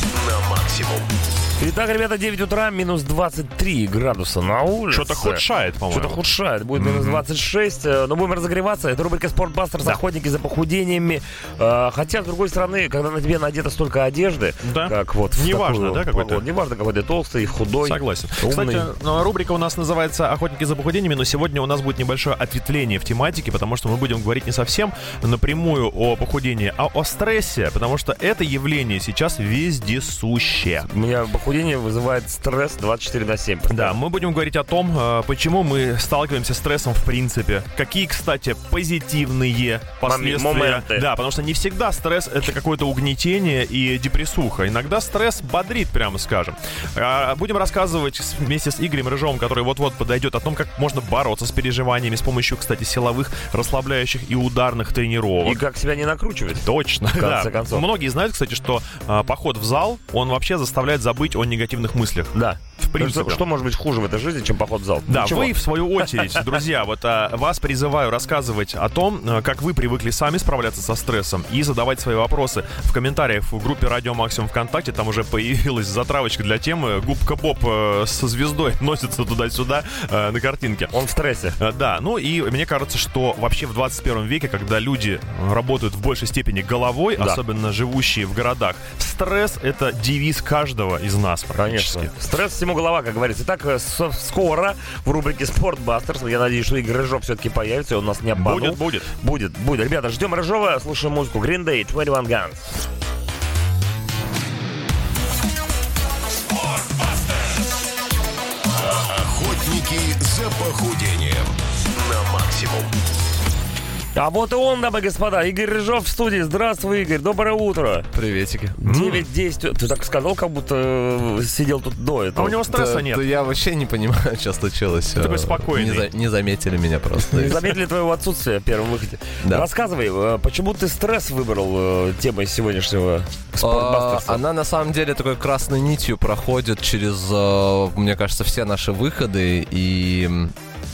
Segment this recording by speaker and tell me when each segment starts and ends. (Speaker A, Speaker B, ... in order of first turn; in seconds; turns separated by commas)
Speaker A: 0.4-0.9, Speaker B: 1.6-18.9, Speaker C: 4.9-6.2, Speaker C: 6.8-7.2, Speaker C: 14.6-16.5, Speaker C: 17.8-30.9, Speaker B: 30.8-34.0, Speaker C: 33.7-55.6, Speaker B: 40.0-41.1, Speaker B: 55.4-57.9, Speaker C: 56.6-63.4, Speaker B: 62.3-65.5, Speaker C: 65.1-80.9, Speaker B: 80.9-81.6, Speaker C: 81.6-92.1, Speaker B: 87.2-87.4, Speaker B: 91.6-102.7, Speaker C: 98.4-99.1, Speaker A: 109.1-111.5, Speaker A: 112.2-112.9, Speaker B: 114.2-118.1, Speaker D: 118.1-118.8, Speaker B: 118.8-122.6, Speaker C: 118.8-119.2, Speaker C: 122.3-123.3, Speaker D: 122.7-127.7, Speaker C: 125.2-126.1, Speaker B: 127.2-134.4, Speaker D: 129.4-129.7, Speaker D: 133.6-140.5